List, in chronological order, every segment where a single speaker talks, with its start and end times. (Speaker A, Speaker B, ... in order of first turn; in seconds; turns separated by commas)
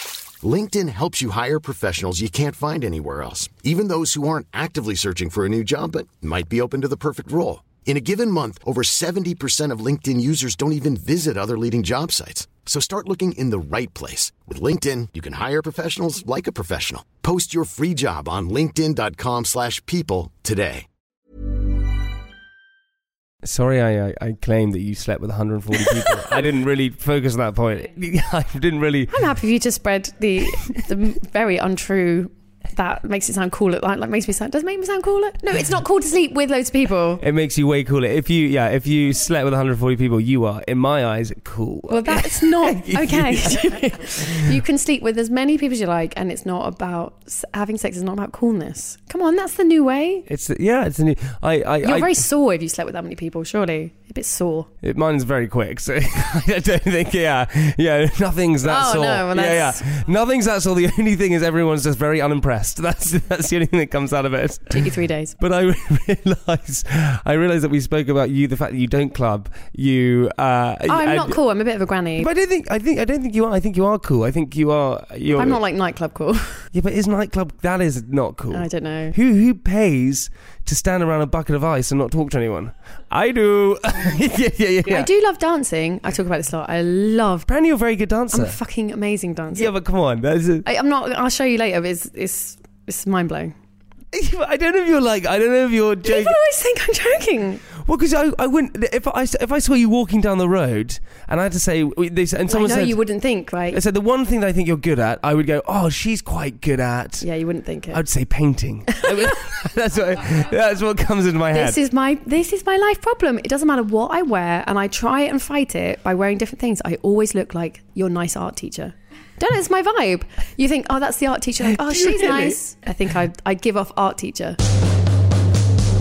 Speaker A: 0.4-20.9, Speaker B: 23.4-29.2, Speaker C: 29.1-37.2, Speaker B: 37.2-44.3, Speaker C: 41.9-50.2, Speaker B: 50.3-52.2, Speaker C: 51.8-54.7, Speaker B: 54.8-71.4, Speaker C: 58.6-59.8, Speaker C: 64.7-65.3, Speaker C: 70.9-72.3, Speaker B: 72.2-75.6, Speaker C: 75.3-76.6, Speaker B: 76.7-85.1, Speaker C: 78.5-79.2, Speaker C: 84.9-87.5, Speaker B: 87.5-88.6, Speaker C: 88.3-89.7, Speaker B: 89.5-90.7, Speaker C: 90.6-93.5, Speaker B: 94.1-96.4, Speaker C: 96.0-97.6, Speaker B: 97.8-103.0, Speaker C: 102.5-103.8, Speaker B: 103.7-107.2, Speaker C: 107.2-108.0, Speaker B: 107.9-111.8, Speaker C: 109.0-109.3, Speaker C: 111.5-124.6, Speaker B: 121.6-122.6